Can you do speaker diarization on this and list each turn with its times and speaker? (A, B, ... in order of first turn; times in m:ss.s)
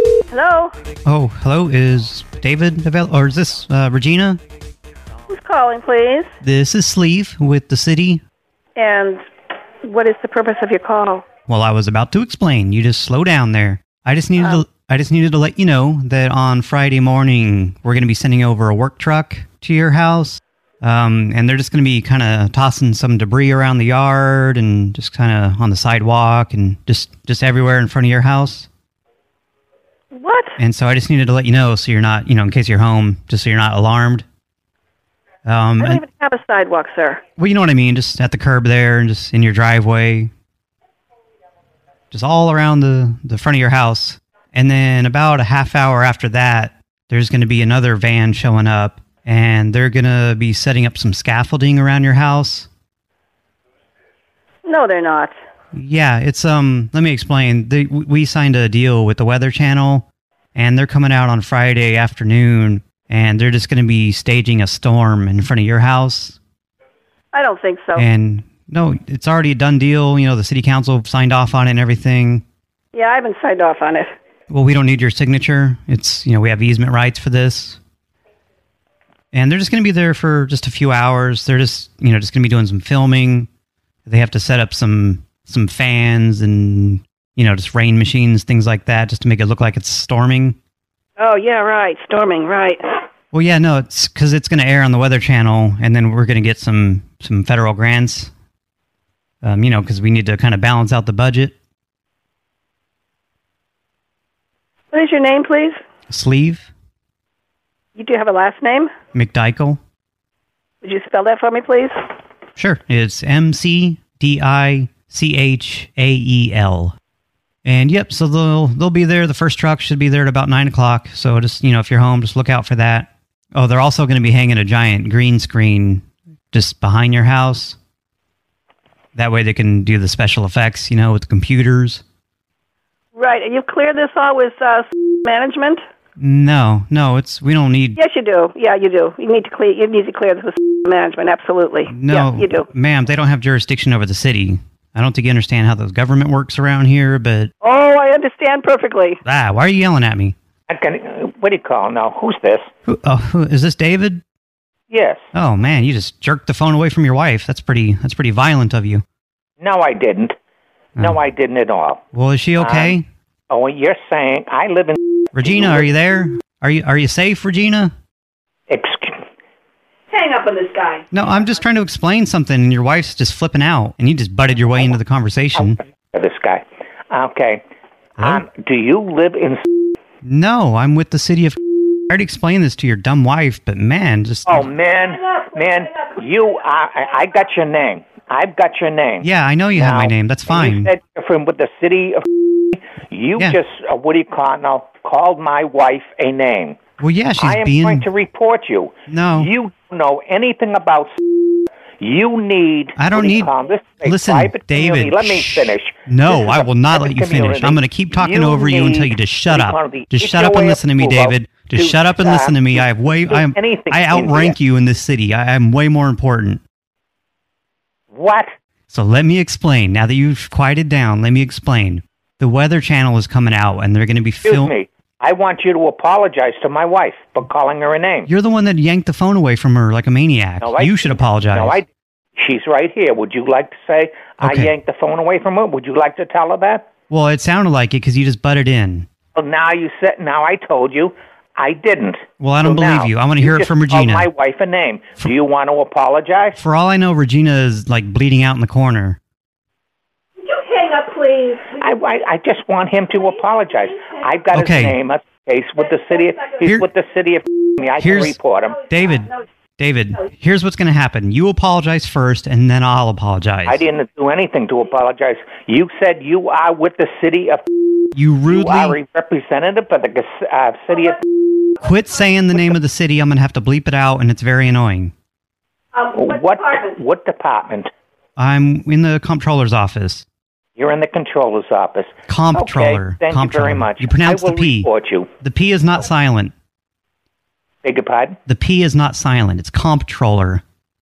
0:00.3-0:00.7 A
0:01.0-0:04.4 B
0:05.3-0:06.3 A
0:06.4-0:08.2 B
0:08.8-0:09.2 A
0:09.8-0:11.2 A
0:11.5-0:28.7 B
0:14.4-0:14.6 A
0:30.1-0:30.6 A
0:30.6-0:34.2 B
0:35.4-0:36.0 B
0:35.8-0:37.2 A
0:37.4-0:40.3 B
0:42.1-0:52.7 B
0:54.6-0:55.4 A
0:55.7-1:06.4 B
1:07.3-1:08.0 A
1:08.0-1:12.4 B
1:12.9-1:14.1 A
1:14.5-1:17.8 B
1:19.3-1:23.5 B
1:24.1-1:30.6 B
1:31.2-1:32.8 A
1:33.3-1:38.3 B
1:39.4-1:41.5 B
1:44.9-1:45.8 A
1:46.1-1:46.7 B
1:48.0-1:48.9 A
1:49.1-1:49.8 B
1:50.8-1:52.0 A
1:52.6-1:57.0 B
1:57.6-2:07.8 B
2:09.2-2:12.0 B
2:13.2-2:15.8 A
2:16.2-2:18.0 B
2:18.0-2:22.7 A
2:21.9-2:27.5 B
2:27.6-2:29.2 A
2:29.2-2:30.4 B
2:30.7-2:32.7 C
2:32.9-2:34.2 B
2:34.9-2:35.2 C
2:35.3-2:39.0 B
2:39.6-2:40.4 C
2:41.0-2:42.0 C
2:42.1-2:43.0 B
2:42.6-2:43.0 C
2:43.5-2:45.9 C
2:45.4-2:47.9 B
2:48.7-2:49.2 C
2:50.1-2:51.1 A
2:51.1-2:55.8 B
2:55.6-2:57.6 C
2:58.2-2:59.6 C
3:00.2-3:01.6 B
3:02.1-3:04.7 B
3:04.5-3:16.8 C
3:05.0-3:06.2 A
3:09.2-3:10.9 B
3:17.0-3:18.1 B
3:17.4-3:21.2 C
3:19.1-3:19.5 B
3:22.0-3:34.6 C
3:23.0-3:23.5 B
3:24.0-3:36.6 B
3:38.1-3:38.5 C
3:38.9-3:44.7 B
3:44.4-3:48.3 C
3:48.3-3:51.8 B
3:50.6-3:56.9 C
3:54.4-3:54.7 B
3:57.1-3:59.1 B
3:59.4-4:06.6 C
4:02.4-4:04.3 B
4:06.6-4:09.2 B
4:10.4-4:11.9 A
4:11.8-4:18.8 C
4:14.5-4:15.0 B
4:16.1-4:16.5 A
4:18.0-4:18.4 B
4:18.9-4:23.8 B
4:23.7-4:27.6 C
4:28.2-4:29.0 B
4:28.5-4:31.2 C
4:31.8-4:35.1 B
4:36.0-4:37.0 A
4:36.1-4:37.9 C
4:38.4-4:40.3 B
4:40.8-4:45.3 C
4:42.3-4:44.9 B
4:45.4-4:46.5 B
4:47.8-4:48.4 C
4:48.5-4:50.6 B